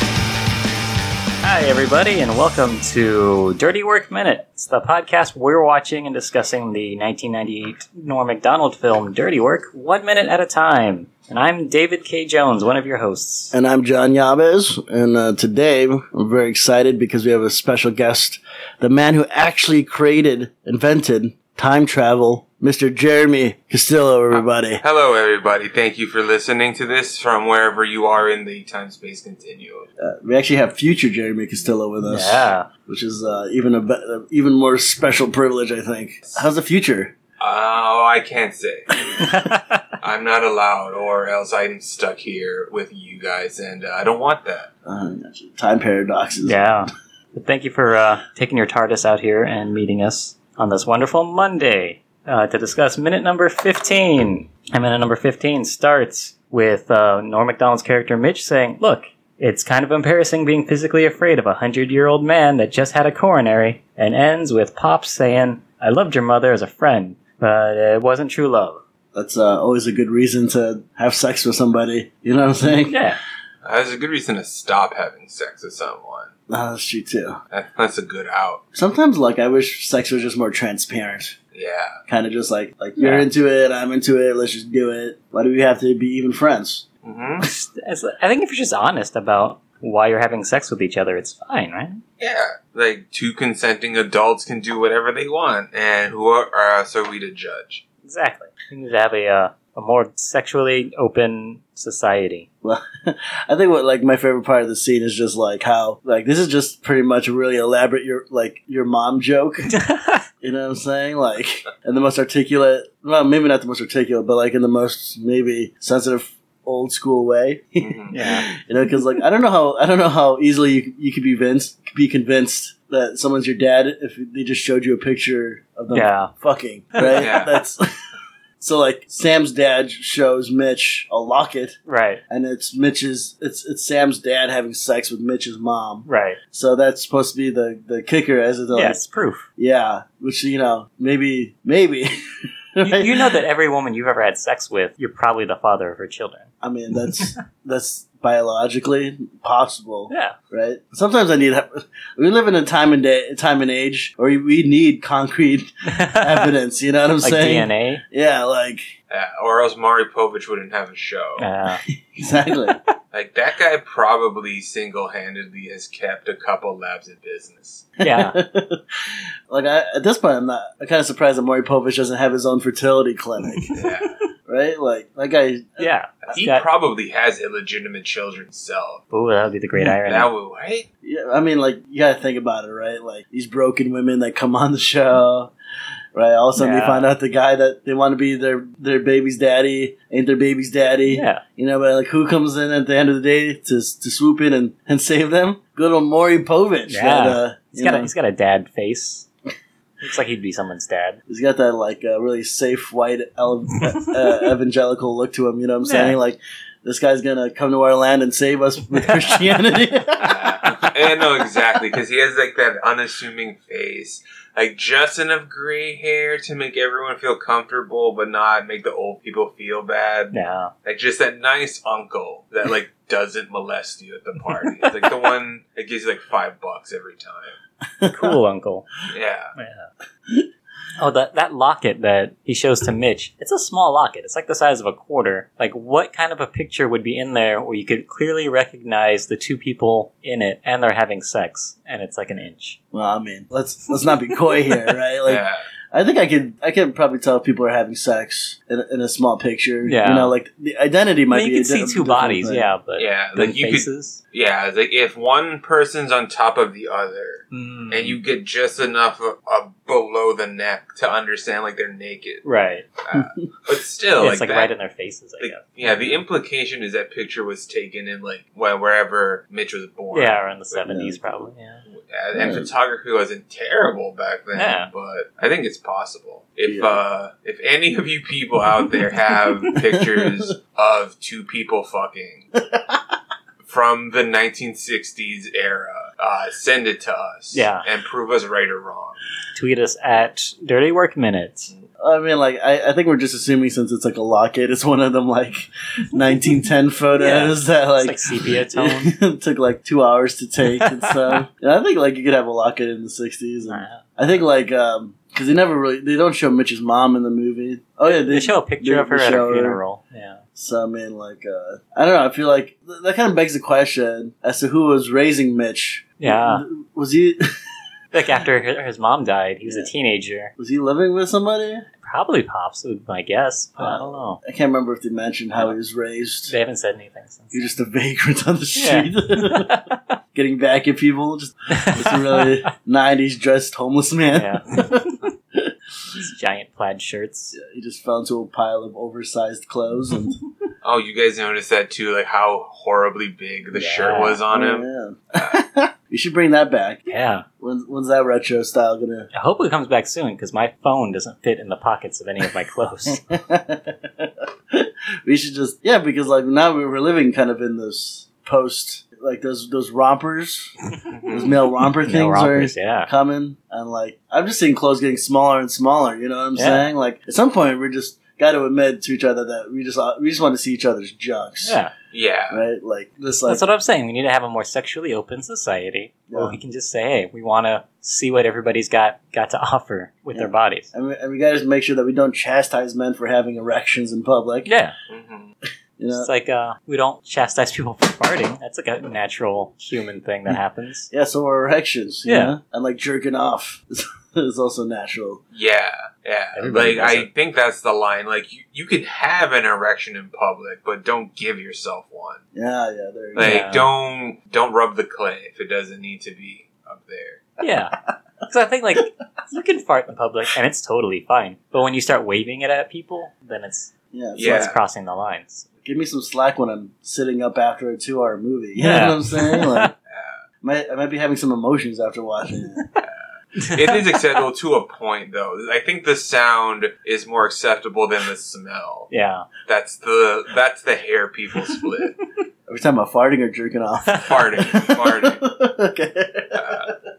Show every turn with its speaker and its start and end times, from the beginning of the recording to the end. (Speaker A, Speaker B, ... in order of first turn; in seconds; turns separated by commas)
Speaker A: 1.4-13.6, Speaker B: 13.5-24.8, Speaker C: 24.3-29.9, Speaker B: 30.0-37.1, Speaker A: 32.0-32.7, Speaker C: 37.4-39.4, Speaker A: 39.2-39.8, Speaker C: 40.0-44.7, Speaker B: 44.9-46.7, Speaker A: 46.4-68.8, Speaker B: 69.2-73.0, Speaker A: 72.7-73.2, Speaker C: 73.6-76.3, Speaker B: 76.5-77.4, Speaker C: 77.5-78.6, Speaker B: 78.7-81.4, Speaker C: 81.5-82.0, Speaker B: 82.1-86.9, Speaker A: 83.0-83.3, Speaker C: 87.0-87.5, Speaker A: 87.4-92.0, Speaker C: 92.2-97.8, Speaker A: 98.0-102.5, Speaker B: 102.6-109.7, Speaker A: 109.7-110.2, Speaker B: 110.4-127.8, Speaker C: 117.8-118.1, Speaker A: 118.1-118.5, Speaker A: 125.9-126.3, Speaker A: 127.0-127.3, Speaker C: 127.1-127.6, Speaker B: 128.6-139.0, Speaker A: 131.9-132.2, Speaker A: 136.1-136.4, Speaker A: 138.7-139.5, Speaker B: 139.6-142.1, Speaker B: 142.8-143.3, Speaker A: 142.8-146.5, Speaker B: 146.6-158.9, Speaker A: 150.1-150.4, Speaker A: 155.9-156.5, Speaker A: 157.2-158.0, Speaker C: 159.1-161.5, Speaker A: 161.4-161.8, Speaker B: 161.9-162.8, Speaker C: 163.1-167.9, Speaker A: 168.0-168.4, Speaker B: 168.1-168.8, Speaker B: 169.5-173.7, Speaker C: 173.7-174.1, Speaker B: 174.5-176.4, Speaker A: 175.8-176.7, Speaker C: 176.3-179.0, Speaker A: 179.1-180.3, Speaker C: 180.1-180.9, Speaker B: 181.0-185.5, Speaker B: 186.2-198.1, Speaker A: 186.6-187.1, Speaker A: 191.1-191.4, Speaker A: 196.9-199.3, Speaker A: 200.0-201.2, Speaker B: 201.3-210.6, Speaker A: 205.8-206.2, Speaker A: 209.0-209.6, Speaker C: 210.2-227.6, Speaker A: 220.3-220.7, Speaker B: 228.0-228.4, Speaker A: 228.1-228.9, Speaker C: 229.1-229.5, Speaker A: 229.6-229.9, Speaker A: 231.0-242.8, Speaker B: 242.9-252.7, Speaker C: 245.2-245.6, Speaker A: 249.8-250.4, Speaker A: 251.3-254.2, Speaker C: 253.0-262.4, Speaker A: 257.5-258.2, Speaker A: 262.4-262.9, Speaker C: 263.1-264.7, Speaker B: 263.1-263.5, Speaker A: 264.2-266.2, Speaker C: 265.4-270.8, Speaker A: 270.1-271.8, Speaker B: 270.9-271.2, Speaker C: 271.9-282.5, Speaker B: 272.4-272.7, Speaker A: 274.6-274.9, Speaker B: 276.7-277.0, Speaker B: 282.6-283.0, Speaker C: 283.6-289.2, Speaker A: 287.5-287.9, Speaker A: 289.6-291.7, Speaker B: 292.0-309.8, Speaker A: 297.2-299.1, Speaker A: 300.7-301.4, Speaker A: 303.6-304.1, Speaker A: 308.1-310.4, Speaker B: 310.6-317.4, Speaker A: 316.2-316.6, Speaker A: 318.1-320.5, Speaker B: 319.6-319.9, Speaker B: 320.6-321.9, Speaker A: 322.0-324.4, Speaker B: 323.8-326.6, Speaker A: 326.5-327.7, Speaker B: 327.5-335.7, Speaker A: 328.8-330.1, Speaker A: 331.7-332.7, Speaker A: 334.3-335.1, Speaker A: 336.1-337.6, Speaker B: 337.5-340.4, Speaker C: 340.8-345.6, Speaker A: 343.7-344.4, Speaker B: 344.5-349.3, Speaker A: 347.1-347.5, Speaker A: 349.3-353.3, Speaker B: 353.3-360.8, Speaker C: 361.1-361.6, Speaker B: 361.3-371.8, Speaker A: 362.0-363.1, Speaker A: 366.6-366.9, Speaker A: 371.6-371.9, Speaker C: 372.1-372.6, Speaker B: 372.5-373.6, Speaker A: 373.5-380.9, Speaker B: 376.3-376.6, Speaker B: 380.3-384.7, Speaker A: 384.6-384.9, Speaker C: 385.1-385.5, Speaker B: 386.0-386.3, Speaker A: 386.1-391.1, Speaker B: 391.1-395.4, Speaker A: 392.3-392.6, Speaker C: 395.5-402.4, Speaker A: 396.6-397.3, Speaker B: 402.5-403.6, Speaker C: 403.4-407.5, Speaker A: 403.4-403.9, Speaker A: 407.6-415.7, Speaker B: 414.1-414.7, Speaker C: 414.4-414.8, Speaker B: 415.8-419.9, Speaker A: 418.8-419.9, Speaker C: 420.1-420.4, Speaker B: 420.6-422.8, Speaker C: 423.0-429.1, Speaker A: 423.6-423.9, Speaker A: 429.1-429.5, Speaker C: 429.7-432.1, Speaker B: 432.7-436.9, Speaker C: 434.2-435.4, Speaker C: 436.6-436.9